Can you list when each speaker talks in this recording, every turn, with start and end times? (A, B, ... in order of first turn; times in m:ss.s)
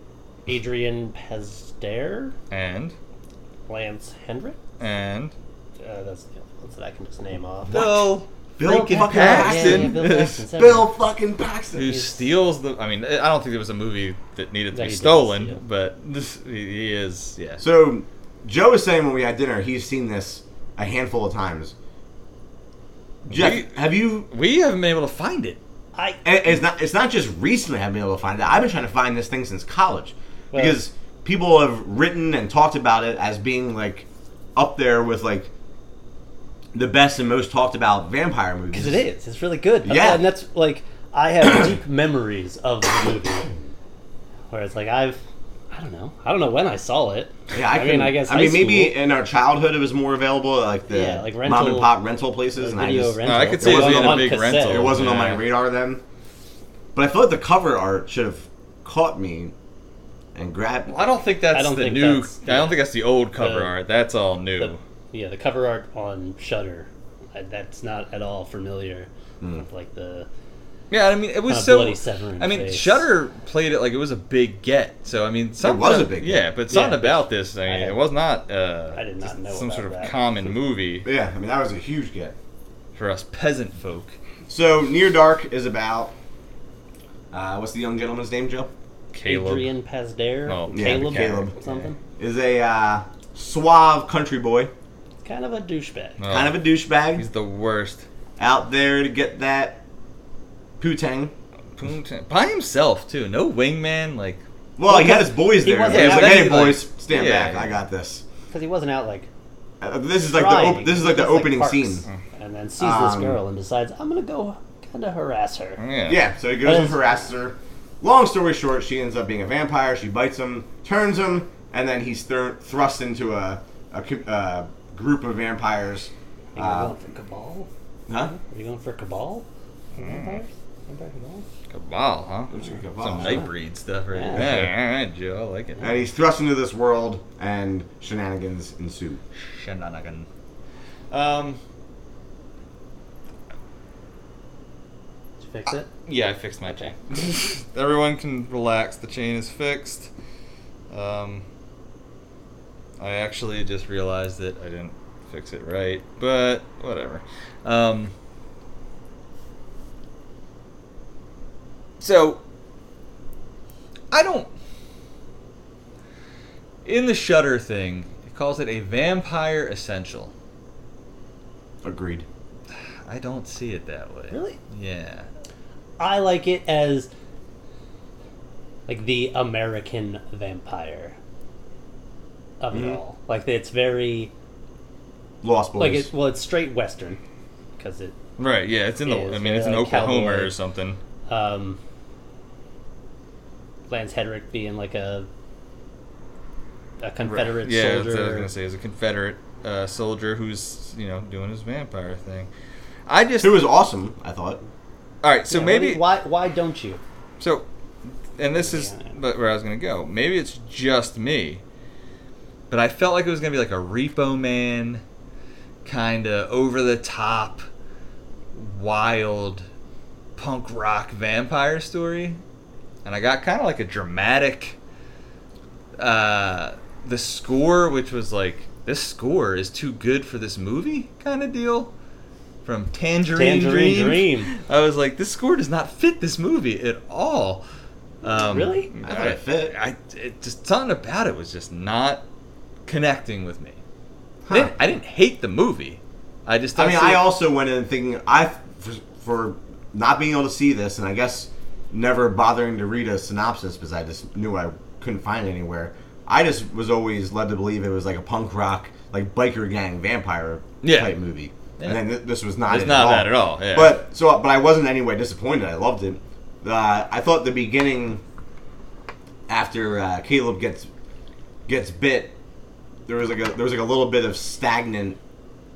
0:00.4-0:02.4 A
0:02.5-0:02.9 B
0:03.7-0:04.6 A
0:04.8-0:05.3 B
0:05.8-0:08.0 A
0:07.7-0:10.4 B
0:07.7-0:08.0 C
0:08.6-0:11.9 C
0:08.6-0:10.9 A
0:11.7-0:17.6 B
0:11.8-0:12.2 A
0:14.7-0:15.6 A
0:17.6-0:21.7 C
0:23.3-0:24.3 C
0:23.3-0:25.6 B
0:25.9-0:26.2 A
0:26.2-0:35.5 C
0:30.5-0:30.8 A
0:36.7-0:39.0 C
0:38.7-0:43.6 A
0:39.8-0:40.3 C
0:44.5-0:45.2 A
0:45.7-0:49.0 A
0:47.5-0:56.0 C
0:50.9-0:51.9 A
0:52.5-0:55.0 A
0:53.2-0:55.5 B
0:56.9-0:59.5 C
1:00.3-1:01.0 C
1:00.9-1:04.8 B
1:01.5-1:02.8 A
1:03.3-1:03.7 A
1:04.6-1:10.3 A
1:10.9-1:21.1 B
1:11.5-1:13.0 A
1:15.6-1:16.4 C
1:16.7-1:18.0 A
1:18.9-1:20.2 A
1:21.0-1:22.4 C
1:23.0-1:24.2 B
1:24.5-1:26.1 C
1:27.3-1:28.7 C
1:29.1-1:29.7 B
1:29.2-1:32.0 A
1:30.4-1:31.9 B
1:30.7-1:31.5 C
1:32.2-1:34.7 C
1:35.2-1:36.2 A
1:36.2-1:36.6 B
1:36.3-1:37.2 C
1:37.1-1:38.0 B
1:38.4-1:39.8 C
1:40.8-1:41.3 C
1:41.8-1:44.4 B
1:44.8-1:48.2 C
1:44.8-1:46.7 A
1:45.9-1:47.7 B
1:48.5-1:49.3 A
1:49.8-1:52.0 C
1:50.2-1:55.8 A
1:52.8-1:53.4 C
1:55.8-1:56.2 B
1:56.1-2:07.0 C
1:56.6-1:57.0 A
2:06.5-2:11.4 A
2:08.1-2:08.3 C
2:10.0-2:10.4 B
2:11.7-2:15.9 B
2:12.5-2:13.4 C
2:13.2-2:13.5 A
2:14.1-2:14.6 A
2:14.3-2:14.7 C
2:15.8-2:19.2 C
2:19.3-2:20.3 B
2:21.1-2:21.6 B
2:25.4-2:25.9 A
2:26.0-2:30.1 B
2:26.6-2:26.9 A
2:30.9-2:31.4 B
2:33.0-2:38.1 B
2:42.0-2:42.4 B
2:44.1-2:44.5 B
2:46.8-2:50.3 B
2:51.8-2:52.2 C
2:53.0-2:55.3 B
2:54.3-2:54.6 A
2:56.0-2:57.1 A
2:58.9-3:01.2 A
3:02.6-3:04.3 A
3:02.7-3:03.0 C
3:05.4-3:06.1 C
3:05.8-3:07.2 A
3:07.8-3:08.2 A
3:08.4-3:11.0 B
3:09.0-3:10.5 A
3:11.3-3:11.8 A
3:13.9-3:15.3 A
3:17.0-3:18.5 A
3:17.2-3:22.5 B
3:23.1-3:23.6 B
3:23.4-3:24.6 C
3:25.2-3:26.0 B
3:25.5-3:27.0 A
3:27.4-3:31.6 B
3:28.5-3:29.1 A
3:32.7-3:35.0 B
3:35.8-3:37.6 B
3:38.5-3:39.7 B
3:40.4-3:42.4 B
3:43.0-3:44.8 B
3:46.0-3:51.9 B
3:52.6-3:57.6 B
3:53.3-3:54.5 A
3:58.2-4:02.2 B
3:58.2-3:58.9 A
3:59.0-3:59.7 C
4:02.9-4:03.8 B
4:04.4-4:04.7 C
4:04.5-4:07.2 B
4:06.8-4:28.2 C
4:20.8-4:21.1 B
4:21.8-4:22.1 B
4:22.6-4:24.0 B
4:29.5-4:30.9 C
4:31.7-4:32.3 C
4:33.1-4:35.2 C